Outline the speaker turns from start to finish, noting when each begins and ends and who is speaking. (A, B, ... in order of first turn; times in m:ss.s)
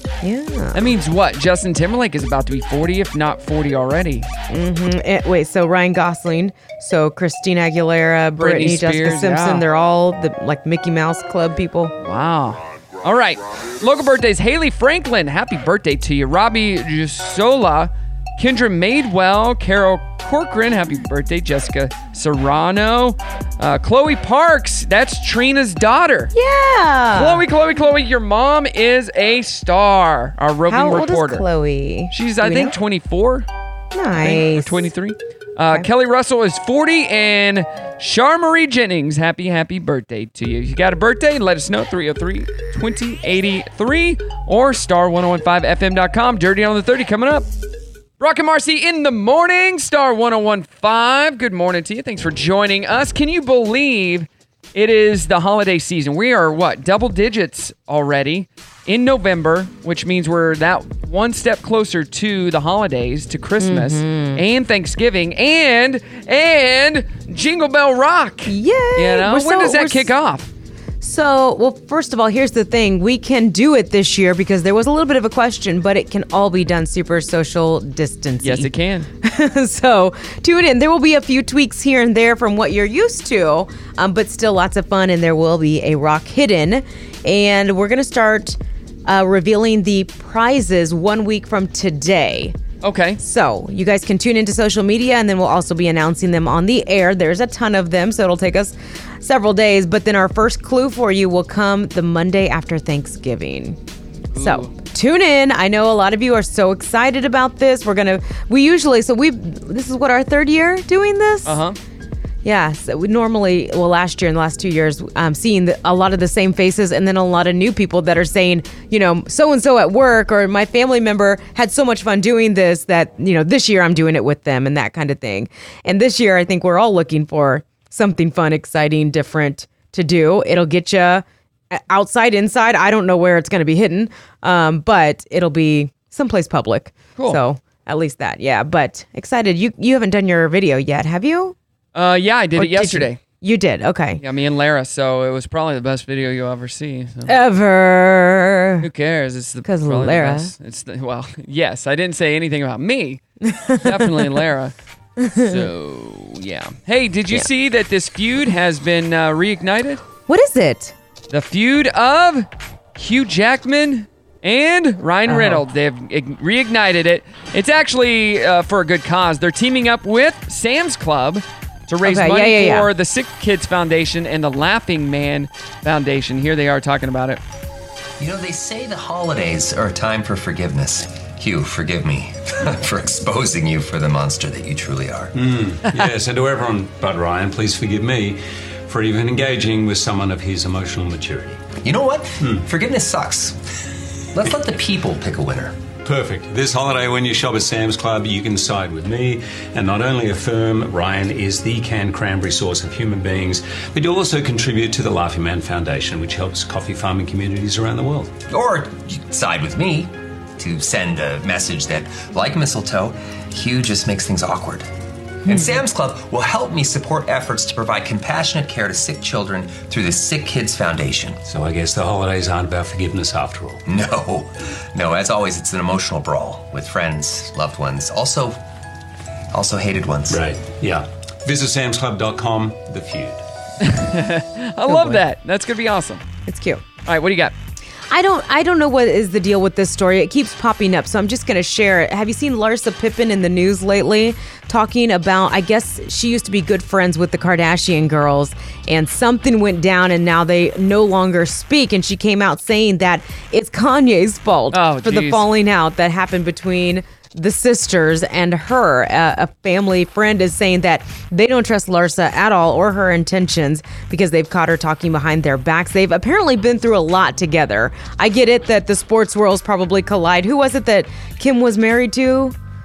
0:00.2-0:00.9 A
0:00.7-0:04.3 B
0:04.5-0:11.9 A
0:08.4-0:09.6 B
0:12.0-0:26.3 B
0:26.3-0:27.4 A
0:27.1-0:31.4 B
0:30.7-0:32.7 A
0:32.1-0:33.5 B
0:33.9-0:34.9 A
0:34.2-0:47.5 B
0:48.2-1:10.5 B
1:03.6-1:04.4 A
1:08.4-1:10.1 A
1:11.0-1:18.7 A
1:18.4-1:19.1 B
1:19.2-1:32.6 A
1:32.8-1:33.2 B
1:33.2-1:43.8 A
1:44.3-1:44.7 B
1:44.3-1:51.6 A
1:51.4-1:51.8 B
1:52.4-2:21.6 A
2:21.9-2:23.2 B
2:22.6-2:24.2 A
2:24.2-2:27.3 B
2:27.3-2:28.9 A
2:28.8-2:33.2 B
2:29.6-2:30.5 A
2:33.4-2:34.4 A
2:33.8-2:34.7 B
2:35.2-2:35.7 A
2:35.4-2:40.0 B
2:40.3-2:40.9 A
2:41.3-2:57.4 B
2:45.3-2:45.6 A
2:52.0-2:52.9 A
2:58.2-3:05.3 C
3:05.4-3:11.7 D
3:11.8-3:13.6 C
3:14.3-3:15.8 C
3:16.0-3:28.4 D
3:28.5-3:34.9 C
3:35.4-3:41.4 C
3:35.5-3:35.8 A
3:41.4-3:43.8 D
3:43.9-3:48.6 C
3:49.5-3:50.4 C
3:50.3-3:53.4 D
3:53.8-3:56.2 B
3:54.9-3:55.2 A
3:56.4-3:56.8 A
3:57.0-3:57.5 B
3:58.1-4:32.5 A
4:14.7-4:15.4 B